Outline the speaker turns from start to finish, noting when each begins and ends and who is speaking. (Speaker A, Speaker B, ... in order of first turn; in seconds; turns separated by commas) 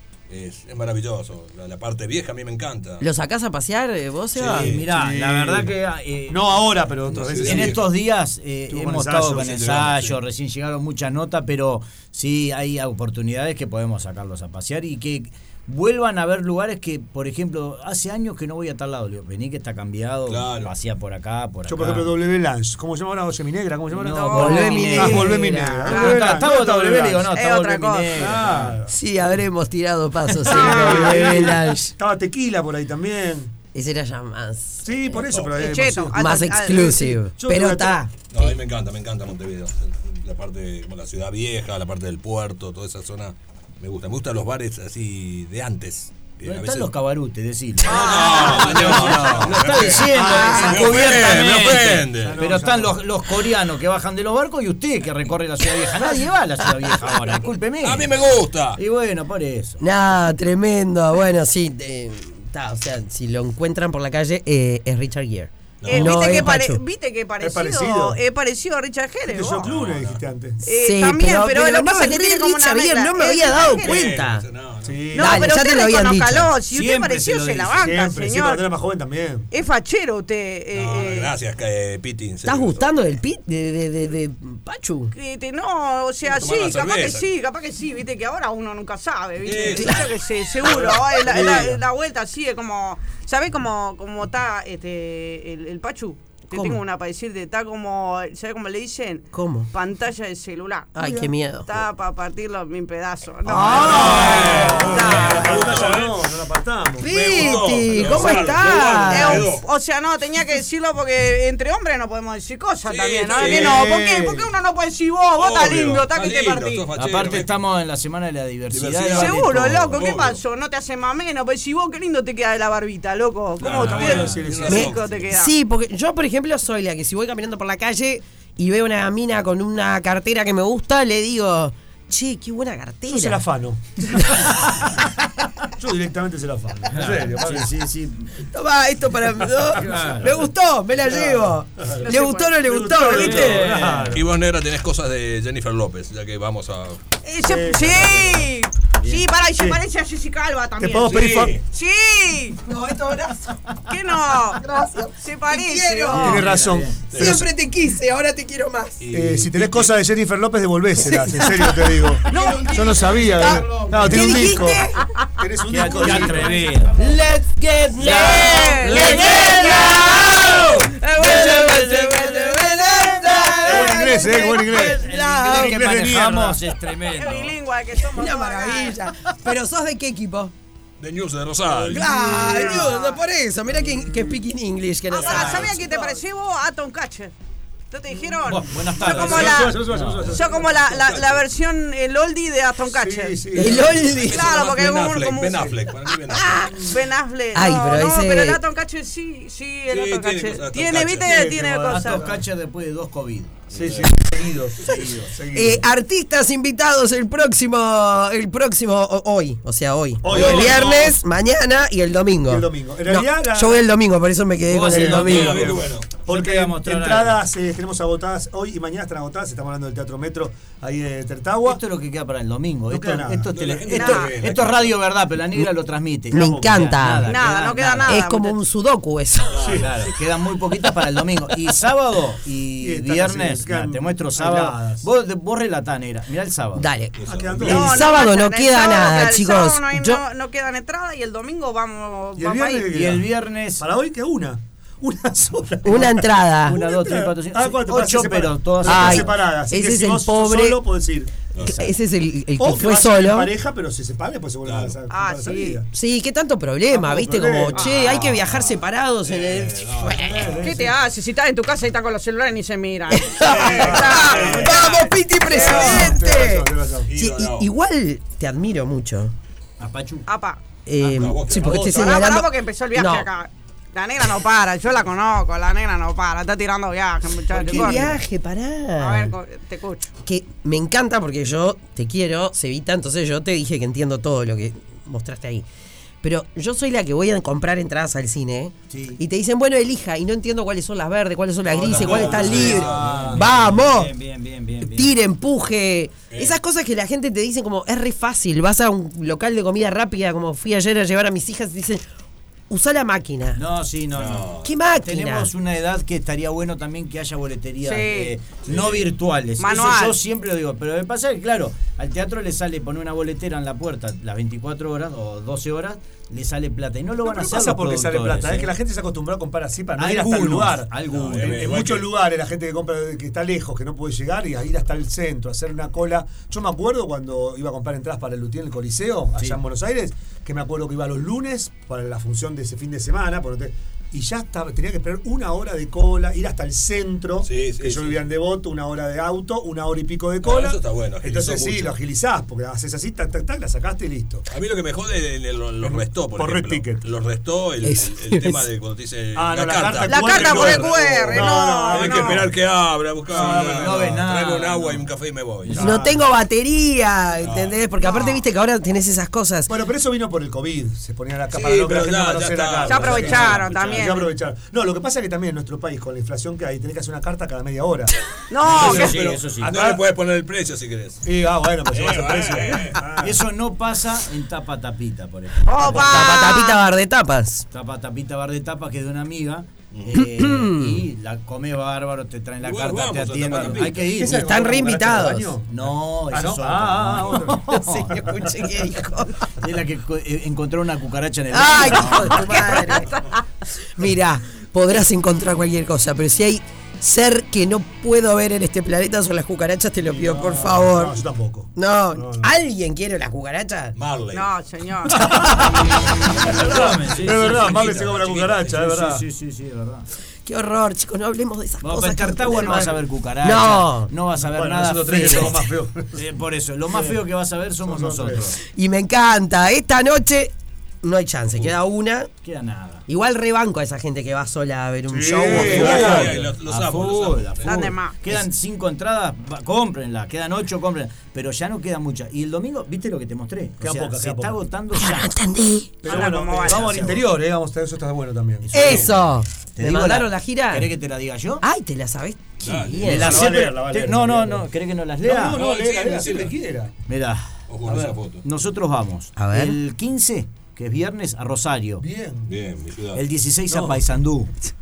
Speaker A: 0.3-3.0, Speaker B: 3.0-4.7, Speaker A: 4.3-4.8, Speaker C: 4.5-6.7, Speaker D: 4.7-5.8, Speaker D: 6.3-7.8, Speaker A: 7.1-7.8, Speaker C: 7.3-22.1, Speaker D: 8.7-9.6, Speaker A: 9.3-10.2, Speaker A: 20.3-20.7, Speaker D: 21.6-27.3, Speaker C: 23.9-28.8, Speaker E: 24.3-25.2, Speaker B: 24.3-26.0, Speaker E: 25.9-26.4, Speaker E: 27.3-28.3, Speaker D: 28.1-28.9, Speaker B: 28.9-31.9, Speaker E: 30.5-31.5, Speaker D: 30.5-33.5, Speaker B: 33.7-34.9, Speaker D: 34.8-36.4, Speaker A: 35.3-35.6, Speaker E: 35.5-37.2, Speaker B: 36.2-38.5, Speaker D: 37.4-38.0, Speaker A: 38.3-46.9, Speaker C: 46.4-59.8, Speaker A: 47.8-52.5, Speaker E: 47.8-49.3, Speaker D: 49.6-53.0, Speaker B: 50.2-50.8, Speaker A: 57.8-58.8, Speaker B: 59.8-66.8, Speaker A: 65.8-66.4, Speaker E: 65.9-69.6, Speaker D: 67.4-68.2, Speaker D: 69.3-70.6, Speaker A: 69.6-70.2, Speaker E: 70.6-74.0, Speaker B: 70.7-74.5, Speaker A: 73.5-75.1, Speaker D: 74.8-75.5, Speaker E: 75.1-78.7, Speaker B: 75.2-76.5, Speaker C: 76.7-77.9, Speaker D: 77.8-79.5, Speaker E: 79.5-81.3, Speaker A: 80.7-82.8, Speaker B: 82.4-85.1, Speaker E: 85.1-100.9, Speaker A: 86.2-87.3, Speaker A: 89.4-90.1, Speaker D: 90.7-91.8, Speaker A: 90.7-91.7, Speaker B: 96.5-96.8, Speaker B: 99.3-99.7, Speaker B: 100.9-101.7, Speaker D: 101.0-101.3, Speaker E: 101.7-105.7, Speaker B: 103.5-104.6, Speaker D: 103.5-107.1, Speaker A: 103.6-106.2, Speaker B: 107.0-109.5, Speaker A: 107.0-109.7, Speaker E: 109.1-116.9, Speaker A: 112.8-113.9, Speaker D: 113.3-114.5, Speaker A: 115.4-117.5, Speaker C: 116.9-120.0, Speaker A: 118.7-120.4, Speaker E: 119.1-125.5, Speaker A: 123.6-125.3, Speaker D: 123.6-125.0, Speaker B: 124.7-133.4, Speaker D: 133.1-134.3, Speaker B: 134.3-134.6, Speaker D: 135.8-137.7, Speaker C: 136.9-138.4, Speaker B: 138.4-143.8, Speaker C: 139.8-140.4, Speaker D: 141.0-144.2, Speaker E: 142.0-142.6, Speaker C: 143.1-144.2, Speaker A: 143.2-143.6, Speaker A: 144.1-147.0, Speaker E: 147.2-152.6, Speaker D: 147.4-148.5, Speaker D: 150.8-151.6, Speaker A: 151.1-151.6, Speaker B: 152.7-153.6, Speaker E: 153.9-154.6, Speaker B: 154.6-156.4, Speaker E: 155.2-156.4, Speaker C: 156.1-157.0, Speaker D: 156.1-157.4, Speaker A: 157.1-157.4, Speaker B: 157.1-159.0, Speaker A: 159.0-159.9, Speaker D: 159.1-166.7, Speaker B: 161.0-161.8, Speaker B: 162.3-162.7, Speaker E: 162.3-162.9, Speaker C: 162.3-162.6, Speaker B: 163.2-165.0, Speaker C: 163.3-164.2, Speaker C: 165.7-177.5, Speaker B: 167.0-170.6, Speaker E: 168.0-169.9, Speaker E: 170.9-173.2, Speaker B: 171.2-175.8, Speaker D: 173.6-176.6, Speaker E: 177.1-179.0, Speaker B: 178.1-180.5, Speaker A: 181.0-182.1, Speaker B: 181.9-185.7, Speaker E: 182.0-183.2, Speaker D: 183.9-184.3, Speaker E: 185.1-187.3, Speaker C: 185.3-185.7, Speaker A: 185.4-185.7, Speaker E: 187.9-195.7, Speaker C: 188.4-190.4, Speaker D: 188.8-191.1, Speaker A: 190.9-191.3, Speaker D: 192.9-194.1, Speaker B: 193.6-194.4, Speaker A: 194.1-196.7, Speaker D: 195.4-195.8, Speaker B: 196.3-196.7, Speaker E: 196.7-202.3, Speaker B: 197.5-198.6, Speaker A: 199.9-201.4, Speaker D: 201.2-202.4, Speaker C: 201.9-204.1, Speaker A: 203.7-204.1, Speaker D: 203.7-205.8, Speaker C: 204.8-205.3, Speaker B: 205.5-215.7, Speaker D: 210.2-211.1, Speaker A: 210.3-211.2, Speaker C: 210.3-210.7, Speaker D: 212.5-213.8, Speaker C: 214.7-217.4, Speaker D: 214.7-221.8, Speaker A: 215.1-216.1, Speaker C: 221.6-228.2, Speaker D: 222.9-223.5, Speaker A: 223.5-225.0, Speaker E: 223.9-224.4, Speaker B: 226.3-227.3, Speaker D: 226.3-226.9, Speaker E: 227.2-228.6, Speaker B: 228.0-229.6, Speaker A: 229.5-229.9, Speaker D: 229.6-229.9, Speaker C: 229.7-236.9, Speaker D: 232.8-235.1, Speaker B: 236.8-240.2, Speaker A: 237.2-237.9, Speaker D: 237.2-238.2, Speaker E: 237.6-242.9, Speaker D: 242.3-251.4, Speaker C: 242.9-243.8, Speaker B: 245.8-246.8, Speaker C: 246.6-249.3, Speaker B: 248.8-250.8, Speaker A: 251.5-251.8, Speaker C: 251.6-251.9, Speaker B: 251.7-253.5, Speaker D: 252.6-255.9, Speaker A: 254.6-255.0, Speaker E: 255.1-255.8, Speaker B: 255.9-260.5, Speaker D: 256.9-257.9, Speaker E: 257.8-258.1, Speaker A: 257.9-260.7, Speaker D: 260.2-260.9, Speaker E: 260.6-266.1, Speaker B: 263.1-269.3, Speaker A: 263.4-265.1, Speaker D: 263.6-264.8, Speaker D: 265.4-267.1, Speaker A: 267.1-267.7, Speaker C: 269.8-270.3, Speaker E: 270.3-270.6, Speaker B: 270.9-273.3, Speaker A: 271.0-272.2, Speaker E: 271.8-278.1, Speaker C: 277.5-278.2, Speaker B: 277.7-279.3, Speaker E: 279.0-280.1, Speaker B: 280.2-285.6, Speaker B: 286.2-294.1, Speaker C: 288.9-289.2, Speaker A: 291.8-293.4, Speaker C: 291.8-295.1, Speaker D: 292.0-293.2, Speaker B: 294.8-302.0, Speaker B: 302.7-303.6, Speaker C: 303.6-318.7, Speaker A: 304.1-304.7, Speaker B: 304.6-305.5, Speaker E: 307.8-308.3, Speaker A: 308.6-309.0, Speaker E: 309.6-310.2, Speaker D: 317.2-344.4, Speaker C: 320.0-321.8, Speaker A: 321.1-322.1, Speaker A: 337.4-338.2, Speaker A: 340.4-341.9, Speaker A: 344.5-355.9, Speaker D: 345.8-347.0, Speaker B: 347.8-348.6, Speaker D: 349.3-352.5, Speaker E: 350.1-352.5, Speaker D: 353.3-354.3, Speaker C: 353.3-355.1, Speaker C: 355.6-356.0, Speaker D: 355.7-356.2, Speaker B: 355.8-359.7, Speaker A: 357.4-357.7, Speaker E: 358.0-358.4, Speaker D: 359.7-370.0, Speaker A: 361.5-364.1, Speaker E: 362.9-364.3, Speaker E: 368.5-369.2, Speaker C: 368.6-369.7, Speaker A: 368.7-371.2, Speaker D: 371.2-373.4, Speaker A: 371.9-373.2, Speaker C: 373.2-376.3, Speaker E: 375.6-376.8, Speaker B: 375.9-377.6, Speaker C: 377.7-384.4, Speaker A: 379.9-380.2, Speaker B: 380.1-381.0, Speaker A: 382.6-384.1, Speaker D: 383.5-388.5, Speaker B: 384.2-385.5, Speaker C: 385.7-388.1, Speaker B: 387.7-389.5, Speaker C: 389.6-392.5, Speaker B: 391.5-393.2, Speaker E: 392.4-393.4, Speaker B: 393.8-401.2, Speaker D: 400.0-402.5, Speaker B: 401.7-403.9, Speaker A: 403.9-404.5, Speaker E: 404.3-405.2, Speaker D: 405.1-409.2, Speaker A: 406.2-408.7, Speaker C: 406.4-410.1, Speaker B: 410.4-414.1, Speaker C: 411.8-415.6, Speaker D: 414.4-416.2, Speaker B: 415.1-415.6, Speaker C: 416.1-418.6, Speaker D: 416.9-417.2, Speaker D: 417.8-418.5, Speaker B: 418.7-420.5, Speaker B: 421.0-422.3, Speaker C: 422.4-423.0, Speaker B: 423.1-426.0, Speaker D: 425.1-426.4, Speaker C: 425.5-435.3, Speaker A: 425.5-427.8, Speaker E: 427.6-428.1, Speaker D: 433.8-434.6, Speaker B: 434.9-435.9, Speaker D: 436.0-439.0, Speaker E: 436.0-437.2, Speaker C: 438.6-439.2, Speaker B: 438.7-440.9, Speaker A: 438.8-439.1, Speaker C: 439.8-441.6, Speaker B: 441.6-443.5, Speaker A: 442.6-443.2, Speaker C: 443.0-445.6, Speaker D: 443.0-444.7, Speaker D: 445.2-446.9, Speaker A: 445.5-446.5, Speaker C: 447.1-452.0, Speaker A: 447.7-448.4, Speaker B: 449.4-449.8, Speaker D: 452.0-452.5, Speaker A: 452.4-453.2, Speaker C: 453.1-454.5, Speaker D: 453.7-454.0